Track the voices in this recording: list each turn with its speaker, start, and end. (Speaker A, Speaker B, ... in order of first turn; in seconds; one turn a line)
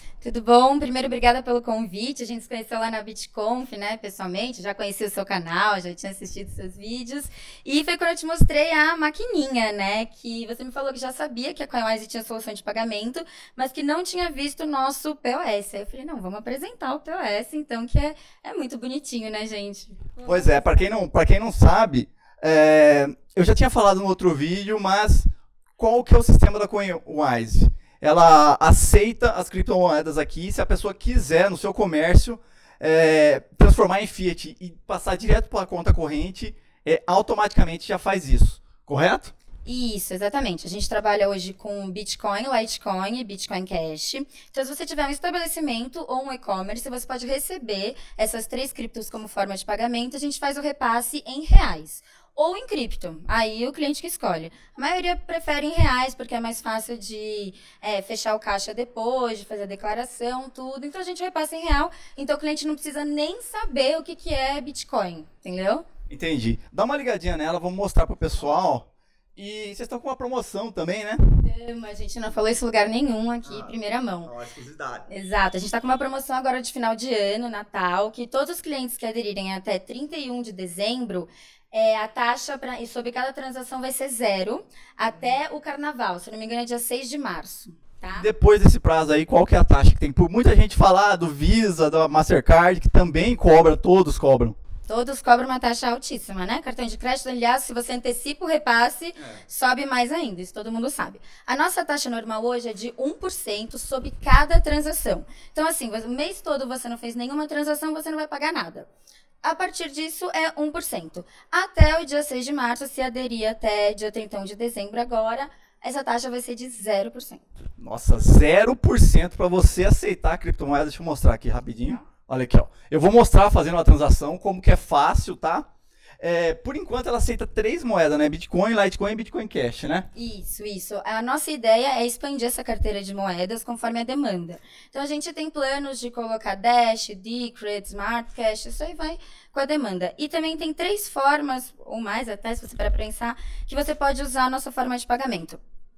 Speaker A: 0.2-20.9
Speaker B: 20.2-39.3
Speaker A: 39.6-65.8
Speaker B: 66.1-71.2
Speaker A: 71.4-74.3
Speaker B: 73.4-75.1
Speaker A: 75.1-88.3
Speaker B: 88.1-94.5
Speaker A: 94.8-108.9
Speaker A: 109.4-117.4
Speaker B: 117.8-125.7
Speaker B: 126.2-130.1
Speaker A: 130.1-145.6